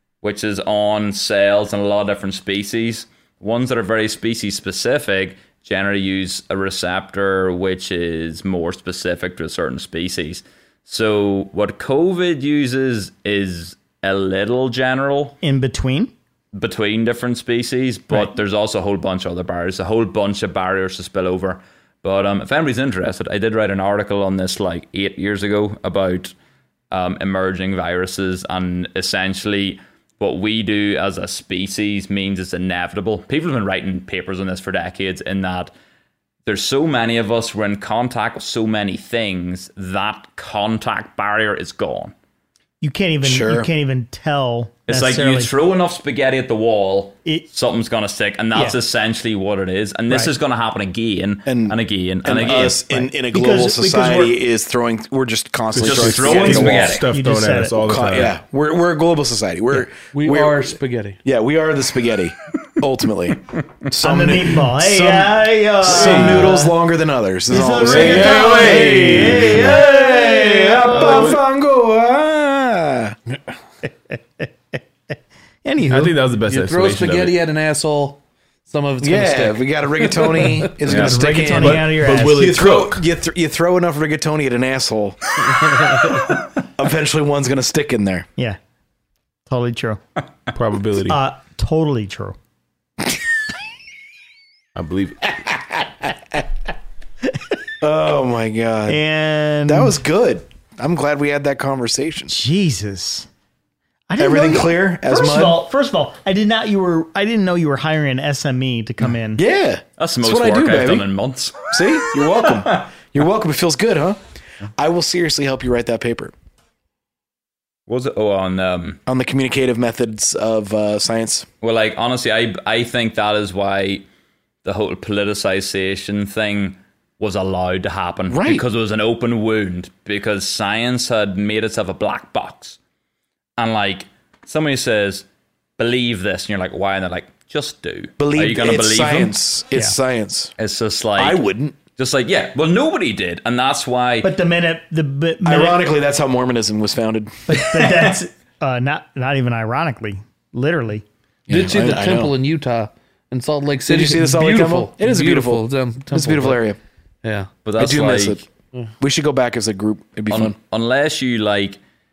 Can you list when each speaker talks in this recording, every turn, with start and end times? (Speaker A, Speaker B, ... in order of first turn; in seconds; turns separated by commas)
Speaker A: 0.2-15.4, Speaker B: 15.4-16.1, Speaker A: 16.6-26.3, Speaker A: 26.9-35.7, Speaker A: 36.5-42.1, Speaker B: 42.8-45.5, Speaker C: 43.2-43.7, Speaker A: 44.9-52.8, Speaker C: 51.5-57.0, Speaker B: 52.6-54.4, Speaker D: 55.7-58.4, Speaker A: 55.8-57.0, Speaker B: 57.1-58.0, Speaker C: 57.8-73.2, Speaker E: 60.1-61.2, Speaker B: 64.0-66.7, Speaker D: 65.9-66.5, Speaker B: 67.5-71.4, Speaker D: 67.8-69.8, Speaker D: 70.8-71.4, Speaker B: 75.7-76.1, Speaker D: 75.8-77.4, Speaker E: 76.5-80.7, Speaker C: 79.0-85.2, Speaker B: 80.8-82.6, Speaker D: 80.9-83.0, Speaker C: 86.8-88.3, Speaker B: 89.5-90.0, Speaker D: 90.5-91.2, Speaker B: 91.1-92.4, Speaker D: 94.8-95.5, Speaker C: 97.8-99.0, Speaker B: 98.9-100.0, Speaker C: 99.7-102.4, Speaker B: 102.3-103.3, Speaker B: 104.1-109.4, Speaker C: 104.2-105.6, Speaker C: 109.4-111.1, Speaker A: 110.0-111.7, Speaker C: 111.7-114.2, Speaker C: 114.8-116.3, Speaker A: 117.9-119.0, Speaker C: 119.1-121.5, Speaker A: 121.6-124.0, Speaker A: 124.6-132.8, Speaker C: 128.3-128.6, Speaker A: 133.6-135.3, Speaker A: 135.8-139.3, Speaker C: 138.2-140.5, Speaker A: 140.6-141.4, Speaker C: 141.2-141.8, Speaker A: 142.0-144.3, Speaker B: 144.2-145.8, Speaker C: 145.4-148.2, Speaker B: 147.5-151.0, Speaker C: 151.5-152.3, Speaker E: 151.5-156.6, Speaker C: 153.9-156.8, Speaker E: 157.2-157.5, Speaker A: 157.7-158.4, Speaker C: 157.8-158.4, Speaker C: 159.0-160.6, Speaker A: 160.3-161.8